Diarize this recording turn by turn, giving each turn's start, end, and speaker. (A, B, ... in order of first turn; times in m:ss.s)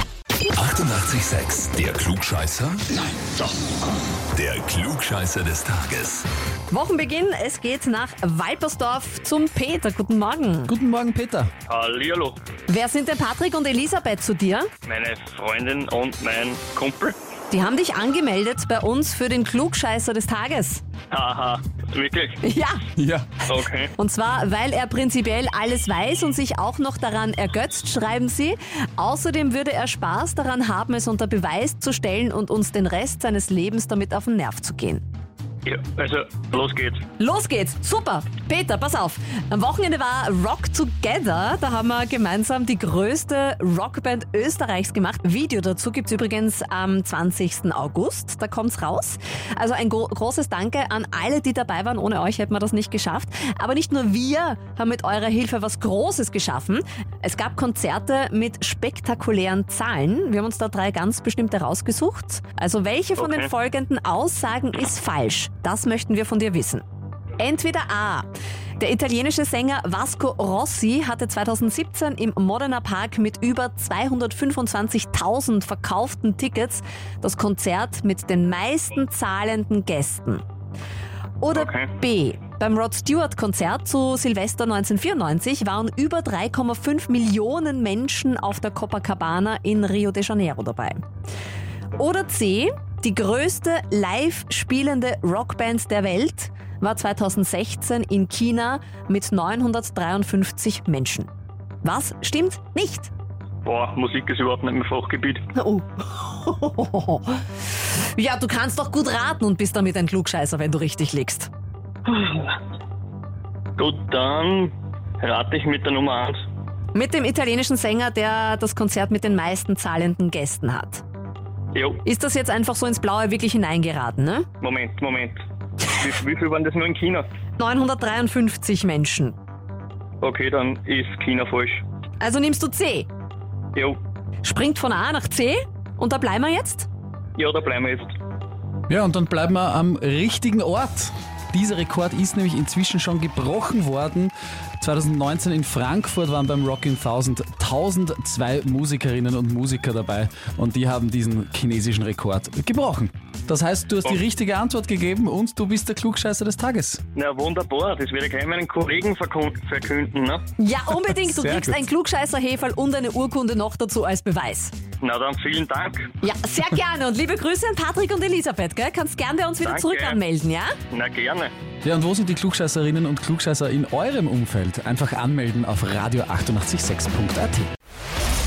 0:00.5-0:03.0 A
0:04.3-0:06.2 A
0:06.7-0:10.7 B
0:10.7-0:11.5 C
0:11.7-0:12.4 D
0:12.7-0:14.7 B
0:14.8-0:17.2 D
0:17.5-0:20.8 B
0:21.1-0:22.4 D
0:22.4-0:22.8 B
0:23.0-0:23.3 C
0:23.4-0:23.9 D
0:24.0-0:35.0 B
0:35.6-0:37.0 D
0:37.2-1:06.8 B
1:03.2-1:03.5 D
1:07.4-1:20.4 B
1:21.4-1:31.0 B
1:21.5-1:21.9 D
1:32.0-1:41.3 B
1:41.8-1:43.1 B
1:43.6-1:45.4 D
1:45.5-1:47.4 B
1:48.0-1:51.5 B
1:52.1-1:52.6 D
1:53.8-1:56.4 D
1:56.9-2:01.0 B
2:01.7-2:02.0 D
2:02.0-2:04.5 B
2:04.6-2:07.3 D
2:07.6-2:09.3 B
2:10.2-2:11.8 D
2:12.2-2:13.1 B
2:14.4-2:16.9 B
2:17.4-2:18.1 D
2:18.9-2:37.0 C
2:37.1-2:40.4 D
2:40.6-2:44.7 B
2:41.2-2:41.8 C
2:45.0-2:46.1 D
2:46.2-2:50.8 B
2:49.6-2:50.2 D
2:50.9-2:51.5 D
2:51.8-2:57.7 C